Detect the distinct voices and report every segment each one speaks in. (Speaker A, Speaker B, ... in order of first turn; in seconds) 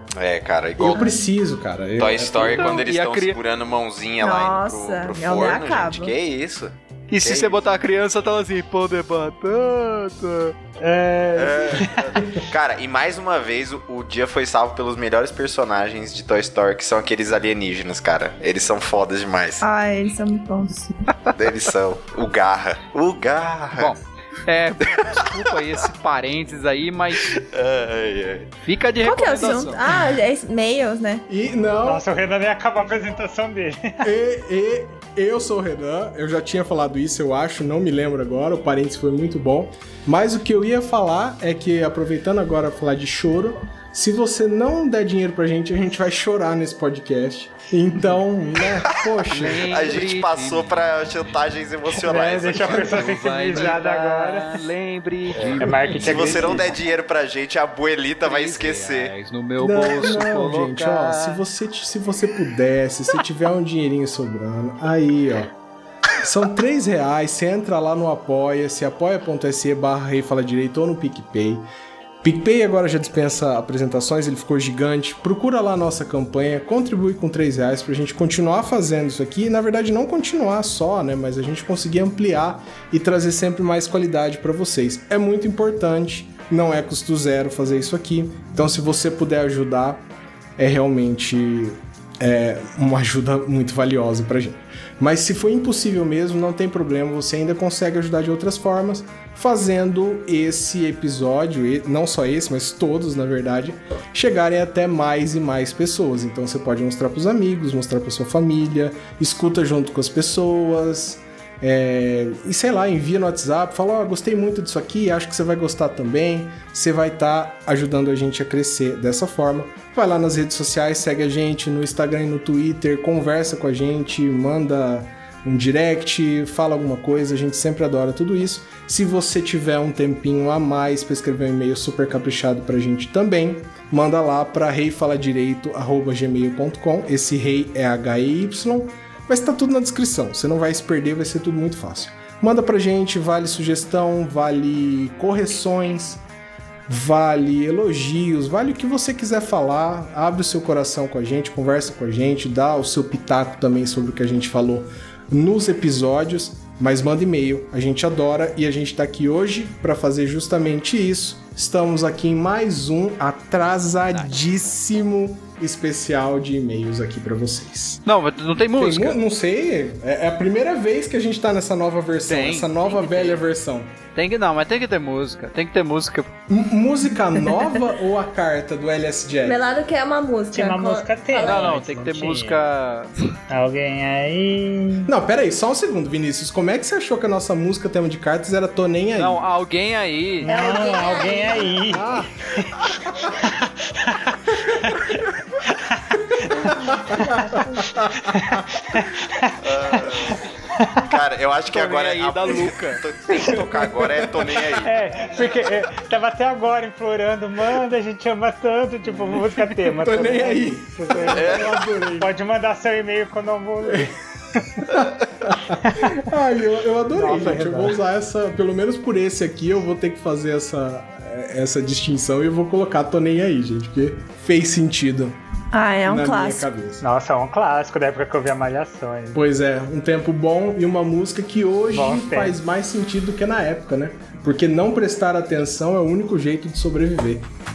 Speaker A: 0.2-1.1, 2.0-7.6, 11.3-19.6, 21.3-23.9, 25.0-25.2, 27.2-28.5, 48.7-53.0, 56.0-59.1, 199.6-200.4, 201.0-204.9, 211.3-211.7
Speaker B: 0.8-2.9, 31.3-32.0, 34.0-49.8, 59.6-65.5, 66.2-71.7, 72.2-90.0, 90.6-146.2, 146.9-168.0, 168.8-173.9, 176.5-179.6, 185.1-189.4, 191.9-192.3, 196.7-198.6, 209.9-212.3, 214.8-225.4, 226.0-227.0, 229.3-237.5
Speaker C: 2.5-3.4, 7.1-10.5, 23.8-27.4, 28.6-29.8, 49.3-50.8, 52.5-56.6, 58.2-61.4, 168.1-169.2, 172.2-173.4, 174.1-176.3, 181.3-183.1, 189.2-190.5, 201.7-203.0
Speaker D: 4.2-6.1, 19.6-21.0, 29.0-31.2, 179.4-181.8, 190.4-191.9, 225.7-226.7
Speaker E: 10.8-12.0, 31.8-34.1, 52.0-54.6, 55.6-56.7, 180.5-182.6, 183.5-185.1, 190.4-201.1, 204.8-214.1, 215.8-216.2, 217.1-218.0, 227.0-229.4, 231.9-232.6